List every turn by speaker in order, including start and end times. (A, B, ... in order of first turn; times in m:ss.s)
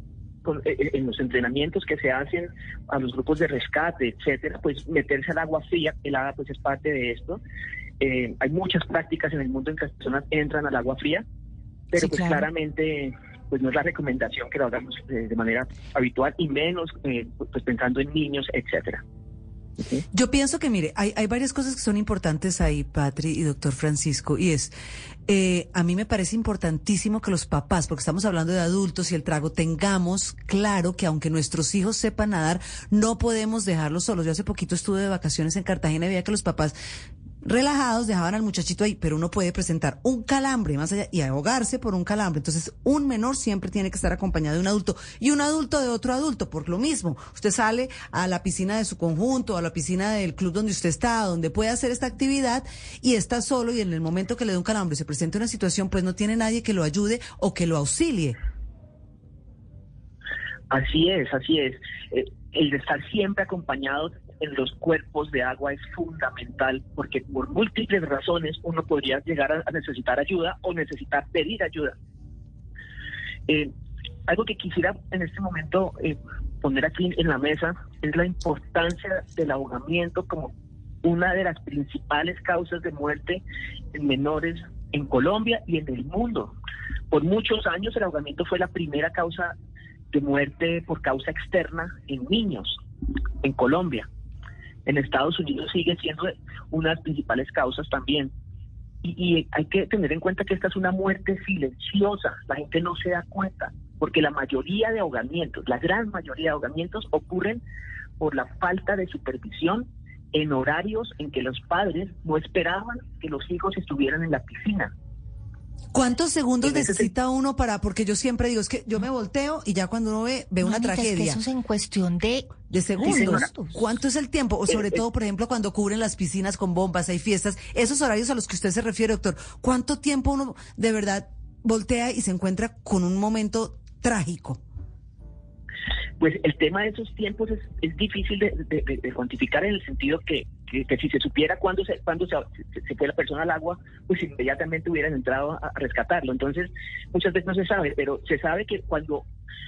0:00.4-0:07.4 A
0:08.0-0:11.2 A
0:11.9-0:19.0 A
0:12.0-0:12.5 B
0:20.1-0:24.7 C
0:25.3-0:36.8 C
0:37.4-0:58.4 C
1:00.7-1:11.9 A
1:14.3-1:23.4 A
1:23.9-1:26.5 A
1:27.1-1:29.5 A
1:30.1-1:32.8 A
1:33.4-1:34.1 A
1:34.8-1:38.3 A
1:39.0-1:47.6 A
1:48.2-1:54.9 A
1:55.9-2:01.4 C
1:56.6-1:57.1 A
2:00.6-2:03.8 B
2:02.7-2:14.6 C
2:03.0-2:03.5 A
2:04.7-2:05.0 A
2:16.2-2:29.2 A